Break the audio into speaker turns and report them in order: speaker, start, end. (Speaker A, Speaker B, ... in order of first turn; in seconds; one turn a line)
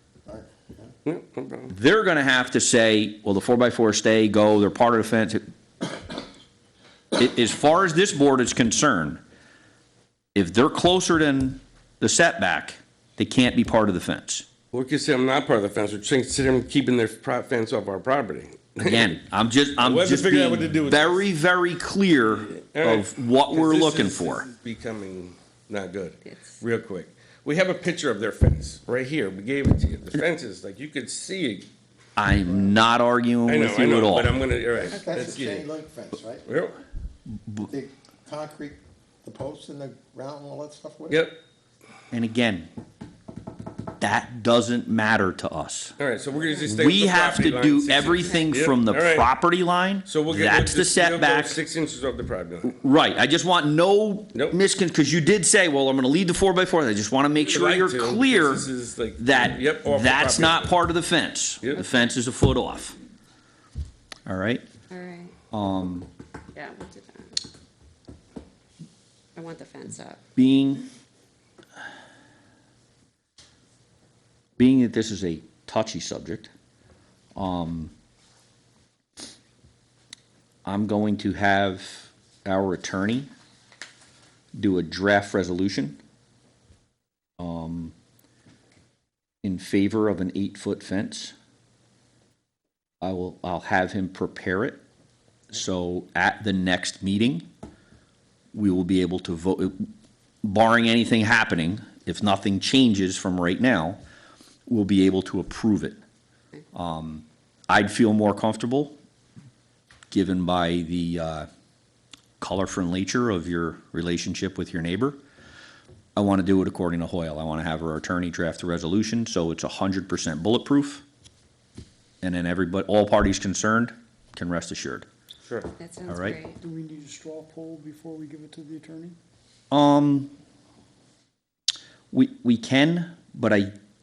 Speaker A: 0.3-0.9
Speaker B: 1.1-1.7
Speaker C: 1.7-5.4
Speaker C: 7.1-9.2
Speaker C: 10.3-14.5
Speaker B: 14.7-19.2
Speaker C: 18.8-24.5
Speaker B: 19.8-21.3
Speaker B: 22.5-31.7
Speaker D: 26.3-26.5
Speaker C: 32.2-34.3
Speaker B: 33.5-35.7
Speaker A: 34.8-36.5
Speaker B: 36.5-36.8
Speaker C: 37.3-37.6
Speaker A: 37.6-41.3
Speaker B: 41.1-41.4
Speaker C: 42.1-42.7
Speaker C: 44.0-46.0
Speaker B: 46.0-49.4
Speaker C: 46.7-51.6
Speaker B: 50.0-52.8
Speaker C: 52.6-63.0
Speaker B: 54.3-54.6
Speaker B: 57.4-60.8
Speaker C: 64.3-64.7
Speaker D: 64.9-65.4
Speaker C: 65.5-66.1
Speaker D: 66.5-67.4
Speaker D: 69.3-70.2
Speaker C: 70.4-70.8
Speaker C: 74.6-76.5
Speaker C: 77.3-77.9
Speaker C: 80.7-83.3
Speaker C: 84.5-86.0
Speaker C: 87.4-88.0
Speaker C: 89.4-91.3
Speaker C: 93.0-94.8
Speaker C: 95.5-97.5
Speaker C: 98.5-99.9
Speaker C: 100.4-104.0
Speaker C: 104.7-106.0
Speaker C: 106.7-109.0
Speaker C: 110.1-111.5
Speaker C: 112.4-115.2
Speaker C: 116.2-121.0
Speaker C: 122.2-125.1
Speaker B: 125.4-125.7
Speaker D: 125.8-126.6
Speaker C: 126.1-126.4
Speaker E: 126.7-129.2
Speaker C: 129.7-130.3
Speaker C: 132.1-133.7